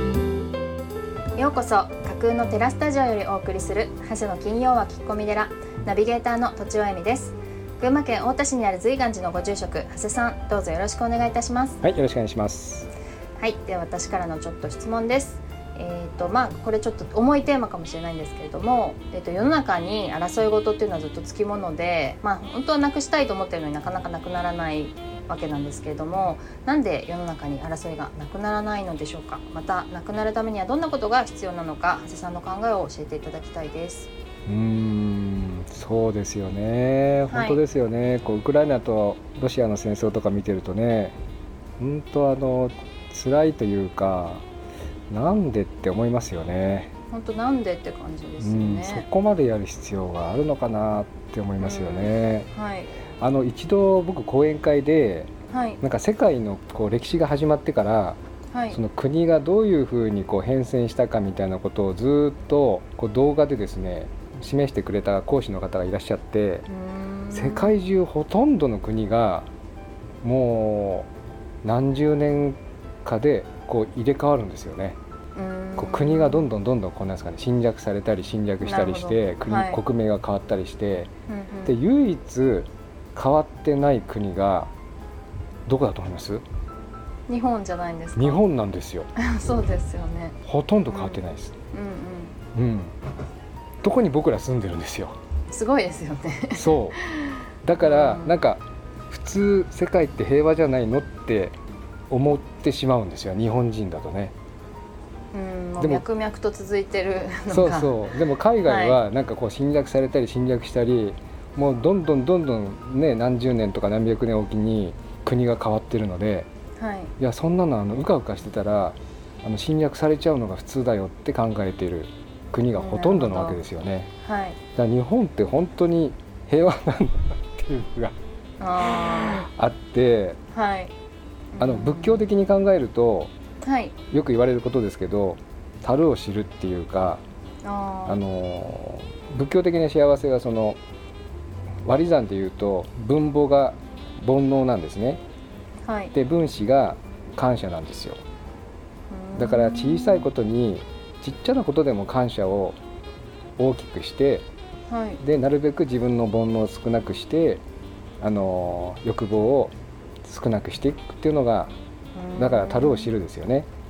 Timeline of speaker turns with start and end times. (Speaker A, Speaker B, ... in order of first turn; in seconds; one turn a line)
Speaker A: 1.4-11.8
Speaker B: 11.8-12.9
Speaker A: 13.4-34.1
Speaker B: 34.5-41.2
Speaker A: 37.3-37.6
Speaker B: 41.8-44.5
Speaker B: 45.1-46.9
Speaker A: 47.1-49.0
Speaker B: 48.4-52.5
Speaker A: 51.6-52.9
Speaker B: 53.2-55.3
Speaker A: 55.5-55.8
Speaker B: 55.8-58.2
Speaker A: 58.5-58.8
Speaker B: 58.7-66.7
Speaker A: 66.7-67.8
Speaker B: 67.3-69.5
Speaker B: 70.2-71.1
Speaker B: 71.6-75.0
Speaker A: 75.3-76.5
Speaker B: 75.8-81.1
Speaker A: 78.6-79.8
Speaker A: 81.3-81.8
Speaker B: 81.7-84.7
Speaker B: 85.7-86.4
Speaker A: 87.3-88.4
Speaker B: 88.2-89.1
Speaker A: 89.2-90.4
Speaker B: 90.4-91.5
Speaker A: 90.9-91.2
Speaker A: 91.7-92.4
Speaker B: 92.5-93.0
Speaker B: 93.8-95.2
Speaker A: 95.5-98.3
Speaker B: 96.5-97.0
Speaker B: 97.6-101.6
Speaker B: 102.1-104.3
Speaker A: 105.3-108.1
Speaker B: 105.8-106.0
Speaker B: 107.5-116.5
Speaker A: 108.6-109.0
Speaker A: 116.8-117.1
Speaker B: 117.2-124.1
Speaker A: 122.8-123.6
Speaker A: 124.2-124.6
Speaker B: 124.7-128.2
Speaker A: 128.6-129.4
Speaker B: 128.8-130.4
Speaker A: 130.5-130.9
Speaker A: 131.5-132.3
Speaker B: 131.6-133.3
Speaker A: 133.6-134.0
Speaker B: 134.1-137.2
Speaker A: 137.6-138.2
Speaker B: 138.1-140.8
Speaker B: 141.8-145.2
Speaker A: 145.8-146.1
Speaker B: 146.1-148.2
Speaker A: 149.1-150.3
Speaker B: 149.3-152.8
Speaker B: 153.6-154.5
Speaker A: 154.9-155.2
Speaker B: 155.2-157.6
Speaker B: 158.2-161.8
Speaker A: 162.2-163.1
Speaker B: 162.4-163.7